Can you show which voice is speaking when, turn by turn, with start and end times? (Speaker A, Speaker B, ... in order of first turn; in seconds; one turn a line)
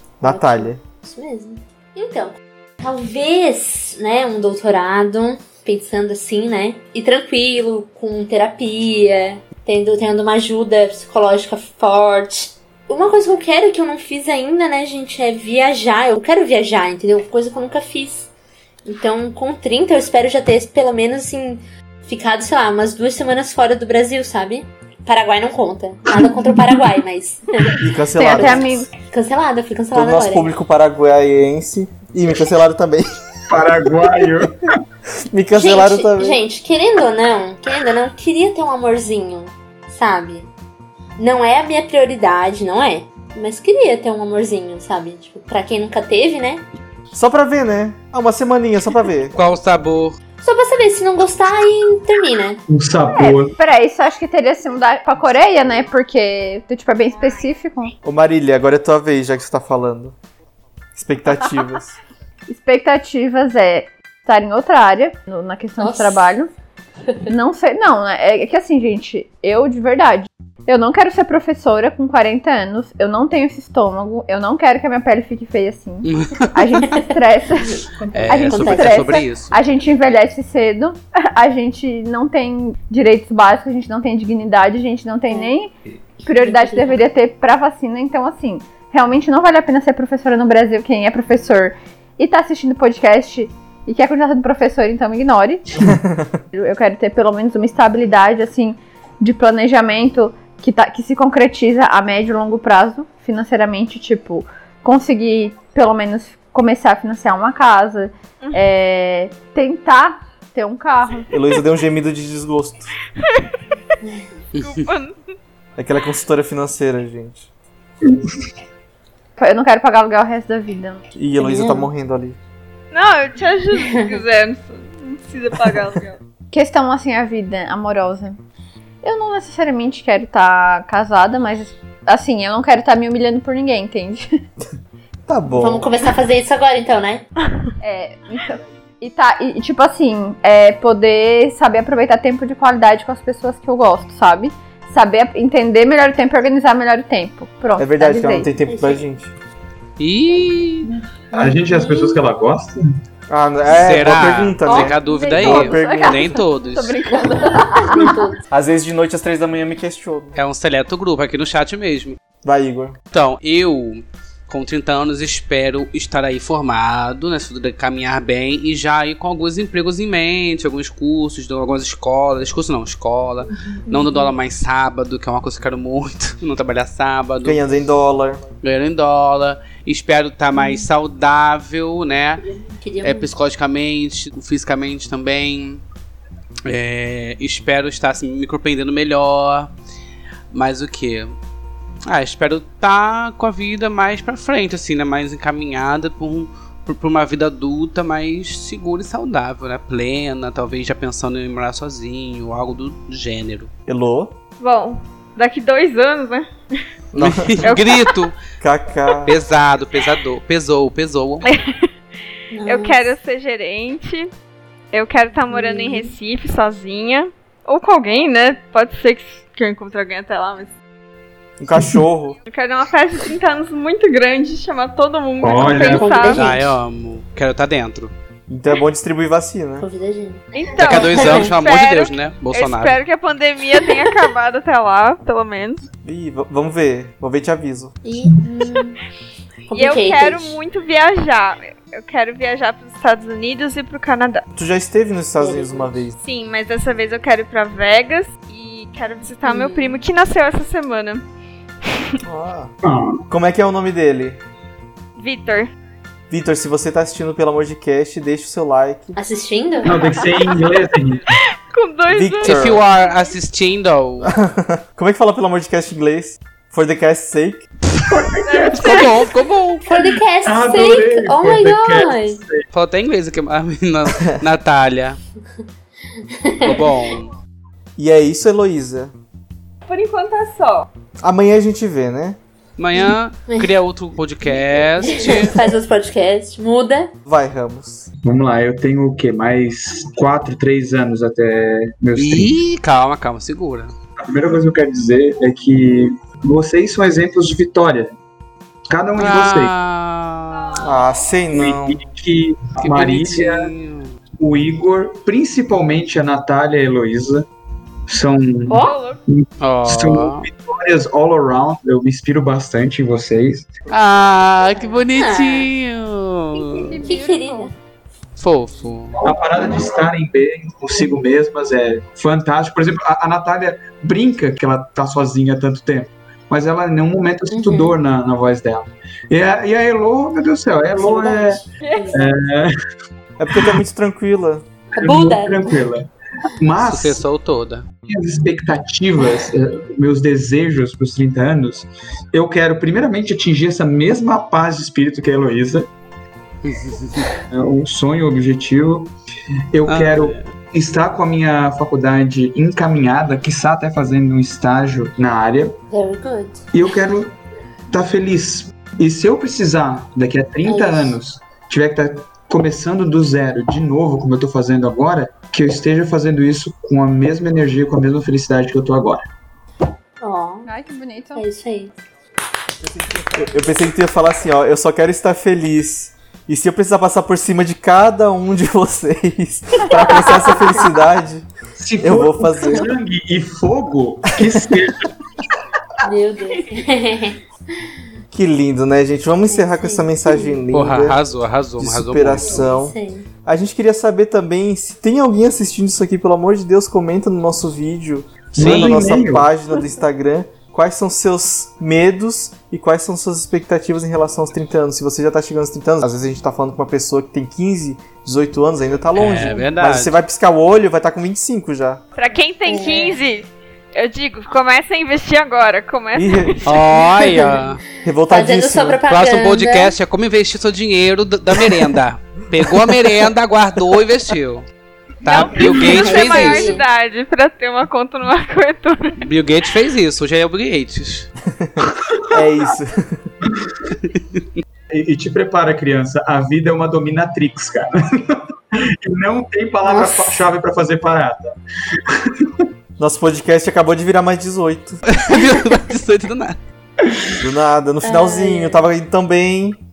Speaker A: 0.2-0.8
Speaker B: 0.2-18.3
Speaker B: 18.9-30.5
Speaker A: 27.8-28.7
Speaker C: 28.1-28.9
Speaker A: 29.9-33.1
Speaker D: 33.5-34.6
Speaker A: 35.3-36.4
Speaker B: 35.5-40.5
Speaker B: 41.2-46.6
Speaker A: 47.1-49.5
Speaker E: 49.3-50.2
Speaker B: 50.4-52.6
Speaker D: 52.7-53.5
Speaker C: 53.1-57.9
Speaker A: 58.0-60.1
Speaker A: 60.9-62.0
Speaker C: 62.5-66.5
Speaker B: 65.8-66.3
Speaker C: 67.3-85.7
Speaker E: 76.0-76.5
Speaker B: 77.8-79.3
Speaker E: 78.1-79.5
Speaker C: 86.2-95.8
Speaker B: 86.3-87.0
Speaker A: 95.8-96.4
Speaker C: 96.5-111.3
Speaker A: 111.3-112.9
Speaker E: 114.5-114.8
Speaker F: 114.6-115.2
Speaker A: 115.8-117.5
Speaker D: 118.0-118.4
Speaker C: 119.4-121.0
Speaker A: 121.2-122.4
Speaker B: 121.4-121.9
Speaker F: 122.9-126.2
Speaker B: 123.8-124.2
Speaker C: 126.5-128.4
Speaker C: 129.0-134.2
Speaker A: 135.3-135.9
Speaker B: 135.6-137.2
Speaker C: 137.8-148.5
Speaker A: 147.8-149.3
Speaker B: 148.6-149.0
Speaker E: 150.0-150.9
Speaker D: 151.3-152.8
Speaker B: 151.3-152.2
Speaker A: 153.3-156.4
Speaker E: 153.7-156.9
Speaker C: 154.6-158.1
Speaker B: 157.6-158.4
Speaker A: 158.5-160.3
Speaker E: 160.3-162.2
Speaker A: 162.4-163.0
Speaker E: 163.1-177.6
Speaker B: 173.9-174.3
Speaker A: 177.4-178.4
Speaker E: 178.6-182.4
Speaker B: 180.5-180.9
Speaker B: 182.4-183.3
Speaker E: 183.0-185.8
Speaker E: 186.7-189.7
Speaker E: 190.5-191.3
Speaker E: 192.1-203.7
Speaker A: 203.9-204.3
Speaker F: 204.6-206.5
Speaker A: 207.1-207.8
Speaker E: 207.2-208.3
Speaker F: 207.6-208.2
Speaker A: 208.6-209.3
Speaker E: 209.3-211.4
Speaker B: 212.5-213.1
Speaker F: 212.7-214.3
Speaker F: 214.9-220.7
Speaker B: 215.5-216.1
Speaker A: 221.6-222.4
Speaker F: 222.5-226.6
Speaker D: 225.4-226.2
Speaker B: 225.7-226.6
Speaker E: 226.2-228.1
Speaker A: 228.5-229.8
Speaker B: 229.8-231.5
Speaker F: 230.5-235.8
Speaker E: 230.8-233.0
Speaker A: 236.0-238.0
Speaker B: 238.0-238.9
Speaker B: 239.7-240.6
Speaker F: 239.7-244.4
Speaker A: 244.5-246.2
Speaker F: 245.4-251.2
Speaker B: 249.4-250.0
Speaker F: 251.9-252.2
Speaker A: 252.2-252.7
Speaker D: 252.8-253.2
Speaker A: 253.3-254.4
Speaker F: 255.2-255.7
Speaker A: 256.3-259.2
Speaker B: 259.1-260.2
Speaker D: 259.8-261.2
Speaker F: 260.2-260.5
Speaker F: 261.6-263.3
Speaker A: 262.1-262.8
Speaker E: 262.4-264.3
Speaker A: 264.2-267.6
Speaker D: 268.1-269.1
Speaker F: 268.4-269.1
Speaker E: 268.7-269.8
Speaker B: 269.8-272.4
Speaker D: 270.0-272.6
Speaker E: 272.7-275.2
Speaker A: 274.1-274.3
Speaker B: 276.4-276.9
Speaker E: 276.6-277.3
Speaker A: 278.0-279.1
Speaker F: 279.9-280.9
Speaker A: 281.2-282.4
Speaker E: 282.8-285.6
Speaker B: 283.5-283.7
Speaker B: 285.0-287.1
Speaker A: 287.2-288.1
Speaker D: 288.2-292.6
Speaker E: 292.1-293.9
Speaker D: 294.2-298.1
Speaker D: 298.9-299.7
Speaker E: 299.1-301.0
Speaker F: 300.5-301.3
Speaker A: 300.8-302.0
Speaker D: 301.5-303.7
Speaker E: 302.8-304.1
Speaker D: 304.4-307.4
Speaker D: 308.1-313.7
Speaker B: 308.7-309.0
Speaker F: 308.8-309.2
Speaker E: 309.6-310.4
Speaker E: 313.9-317.0
Speaker B: 314.7-315.7
Speaker C: 316.6-317.7
Speaker B: 317.0-317.7
Speaker E: 318.4-319.2
Speaker D: 319.2-332.7
Speaker B: 327.5-328.0
Speaker B: 330.9-332.4
Speaker C: 331.8-332.1
Speaker A: 333.4-334.6
Speaker B: 334.9-335.8
Speaker D: 335.0-337.2
Speaker E: 336.8-337.9
Speaker D: 338.1-345.9
Speaker E: 346.6-347.3
Speaker D: 347.5-349.1
Speaker D: 349.7-355.8
Speaker E: 349.9-350.5
Speaker B: 355.9-356.6
Speaker D: 356.7-357.3
Speaker D: 357.9-369.2
Speaker B: 360.6-361.2
Speaker B: 370.2-370.7
Speaker C: 370.6-371.4
Speaker B: 371.4-371.9
Speaker A: 372.8-381.5
Speaker B: 380.2-380.9
Speaker D: 381.8-385.1
Speaker A: 382.0-382.9
Speaker B: 386.0-387.4
Speaker A: 388.3-391.2
Speaker B: 389.5-390.6
Speaker E: 390.7-392.6
Speaker A: 391.8-412.0
Speaker B: 392.6-393.3
Speaker D: 398.6-399.5
Speaker E: 398.6-398.9
Speaker E: 409.1-410.1
Speaker F: 412.2-417.4
Speaker B: 412.6-413.2
Speaker A: 416.1-416.6
Speaker E: 416.6-417.8
Speaker A: 418.0-419.0
Speaker B: 418.3-419.9
Speaker E: 419.0-424.7
Speaker E: 425.2-426.7
Speaker F: 425.2-429.2
Speaker B: 425.7-426.9
Speaker E: 429.2-431.3
Speaker A: 431.5-433.3
Speaker D: 432.1-432.4
Speaker D: 433.4-433.7
Speaker E: 433.9-434.4
Speaker D: 434.9-442.6
Speaker B: 439.8-440.5
Speaker A: 443.0-445.0
Speaker E: 445.1-446.6
Speaker A: 447.4-449.8
Speaker B: 448.0-448.9